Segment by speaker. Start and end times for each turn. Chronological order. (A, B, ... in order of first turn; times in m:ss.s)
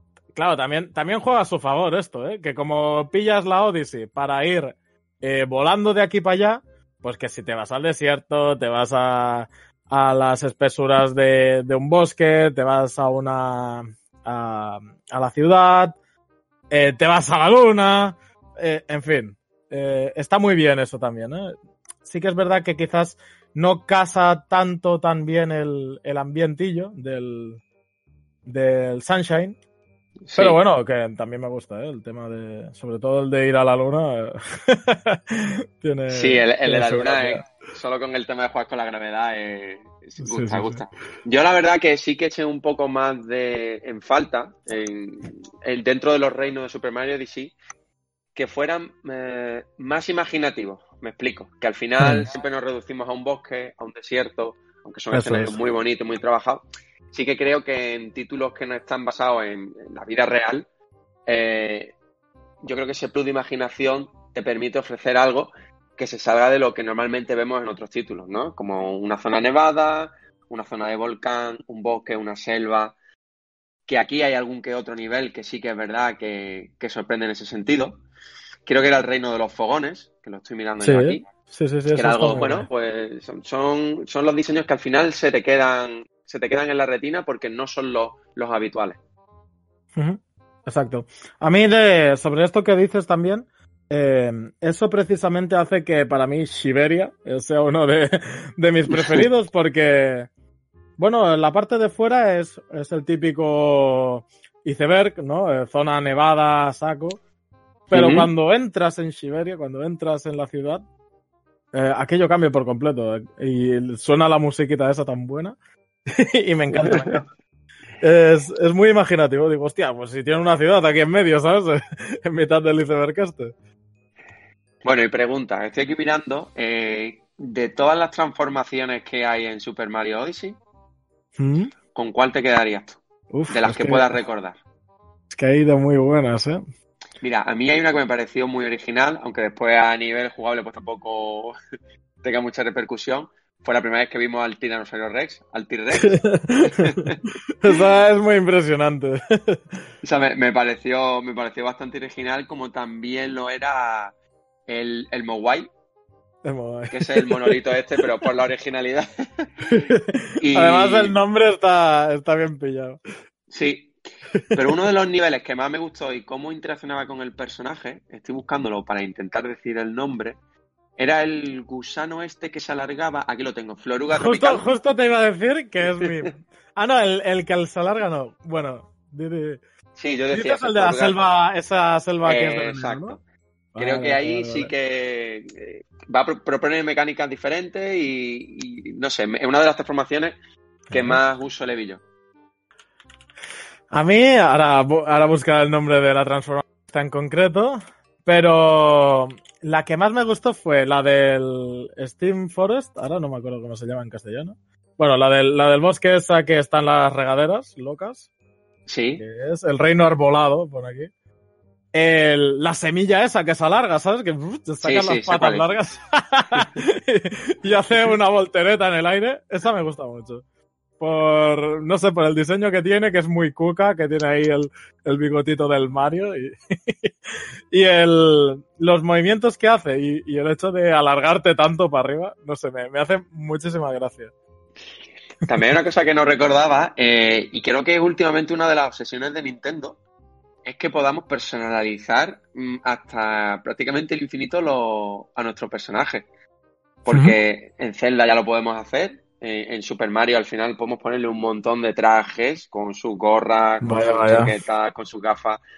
0:00.3-0:16.0 A
0:16.7-0:27.6 A
0:28.4-0:29.6 A
0:30.2-0:30.6 B
0:30.3-0:37.4 A
0:36.1-0:47.5 B
0:40.2-0:40.8 A
0:48.3-1:00.7 B
0:52.0-0:52.3 A
0:55.1-0:55.6 A
1:01.2-1:02.0 B
1:02.6-1:12.9 B
1:13.9-1:18.0 B
1:18.6-1:21.2 B
1:20.8-1:22.7 A
1:21.9-1:29.0 B
1:30.0-1:40.3 A
1:38.9-1:39.2 B
1:41.0-1:47.2 A
1:47.9-1:50.8 A
1:47.9-1:48.3 B
1:51.7-1:55.6 A
1:56.1-1:57.2 A
1:56.7-1:57.2 B
1:58.0-2:03.5 A
2:04.8-2:10.6 B
2:11.4-2:11.7 A
2:11.9-2:14.6 B
2:13.3-2:14.1 A
2:15.3-2:16.6 A
2:17.2-2:21.5 B
2:22.2-2:27.2 B
2:26.0-2:27.0 A
2:27.6-2:29.6 A
2:30.0-2:34.1 B
2:34.7-2:35.7 B
2:36.4-2:37.6 A
2:36.9-2:39.5 B
2:39.6-2:43.0 A
2:40.4-2:41.2 B
2:43.5-2:43.9 B
2:44.3-2:44.7 A
2:44.5-2:50.4 B
2:51.0-2:54.7 B
2:54.1-2:59.6 A
2:55.8-2:56.1 B
2:59.9-3:01.2 B
3:00.3-3:03.2 A
3:02.2-3:03.2 B
3:03.7-3:04.7 A
3:03.8-3:10.3 B
3:10.9-3:11.2 A
3:10.9-3:12.0 B
3:13.9-3:28.3 A
3:28.9-3:29.2 B
3:29.2-3:31.1 A
3:31.9-3:40.4 A
3:34.8-3:35.7 B
3:41.0-3:54.3 A
3:55.4-4:00.0 B
4:00.6-4:06.2 B
4:07.0-4:15.6 B
4:07.1-4:07.4 A
4:13.8-4:14.5 A